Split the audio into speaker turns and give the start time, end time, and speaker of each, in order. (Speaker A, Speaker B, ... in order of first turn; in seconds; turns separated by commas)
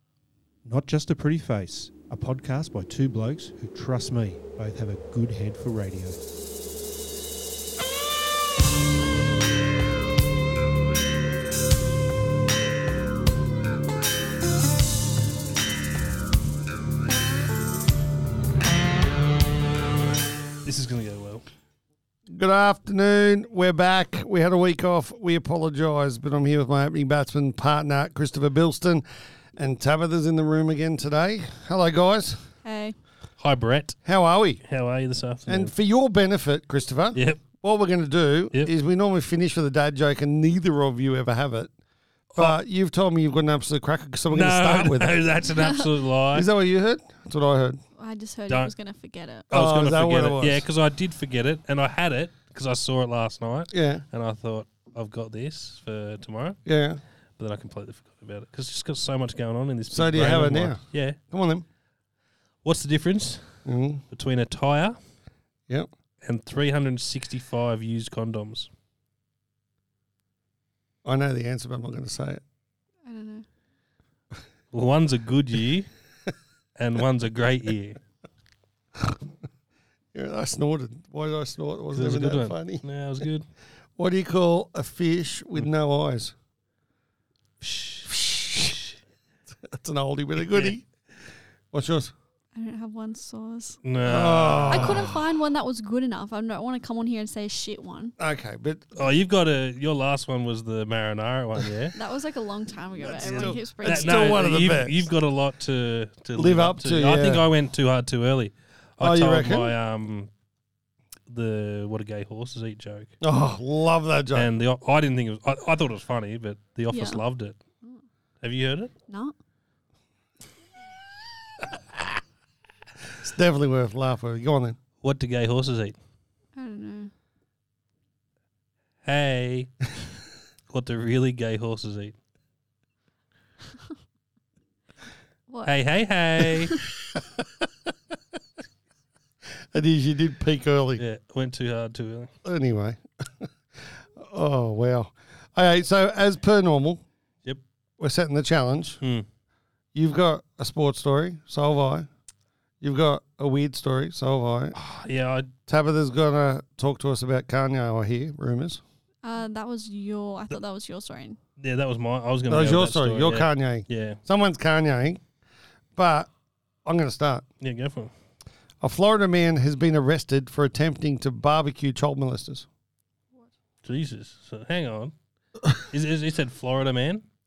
Speaker A: 0.7-6.2, Speaker B: 20.6-21.4, Speaker C: 22.3-29.1, Speaker C: 29.6-32.5, Speaker D: 32.6-33.0, Speaker B: 33.4-34.0, Speaker C: 34.0-34.6, Speaker B: 34.6-35.7, Speaker C: 35.5-41.7, Speaker B: 37.1-37.4, Speaker C: 42.4-45.2, Speaker B: 44.3-46.5, Speaker D: 45.5-45.8, Speaker C: 46.3-47.8, Speaker D: 48.0-49.4, Speaker C: 49.5-50.7, Speaker B: 49.5-56.6, Speaker C: 53.7-54.0, Speaker C: 56.6-57.0, Speaker B: 57.4-61.2, Speaker C: 59.9-61.6, Speaker B: 62.6-63.6, Speaker C: 63.6-64.0, Speaker B: 64.1-65.0, Speaker B: 66.2-68.7, Speaker C: 71.0-72.4, Speaker D: 73.0-73.5, Speaker B: 74.7-75.9, Speaker B: 76.8-78.0, Speaker C: 79.0-79.3, Speaker C: 80.1-82.8, Speaker B: 81.9-83.5, Speaker C: 84.0-86.3, Speaker B: 87.6-88.1, Speaker C: 88.0-88.8, Speaker C: 89.6-90.8, Speaker B: 90.4-90.8, Speaker C: 91.7-92.1, Speaker D: 92.5-93.8, Speaker B: 93.8-95.1, Speaker C: 94.0-95.2, Speaker D: 94.7-98.2, Speaker C: 98.2-99.0, Speaker B: 99.0-101.9, Speaker D: 101.9-104.5, Speaker C: 103.0-105.1, Speaker B: 103.8-110.3, Speaker C: 106.3-107.5, Speaker C: 109.0-109.8, Speaker B: 111.3-113.1, Speaker C: 113.2-114.5, Speaker B: 114.3-117.6, Speaker D: 116.9-117.2, Speaker B: 118.4-118.9, Speaker D: 119.1-119.3, Speaker C: 121.7-122.0, Speaker C: 123.1-124.8, Speaker B: 125.0-126.0, Speaker D: 126.5-127.1, Speaker B: 129.0-129.9, Speaker B: 130.7-132.2, Speaker D: 135.5-135.7, Speaker B: 135.6-136.9, Speaker C: 139.7-141.0, Speaker B: 141.0-142.3, Speaker C: 142.4-147.0, Speaker C: 148.0-149.0, Speaker B: 149.0-149.3, Speaker C: 149.9-152.1, Speaker C: 152.8-154.8, Speaker B: 154.8-155.5, Speaker C: 155.7-158.8, Speaker D: 159.2-161.4, Speaker B: 161.6-164.2, Speaker C: 162.5-165.2, Speaker C: 166.0-166.3, Speaker C: 166.8-167.4, Speaker B: 167.6-168.1, Speaker C: 168.8-172.7, Speaker B: 173.8-175.1, Speaker B: 175.8-177.2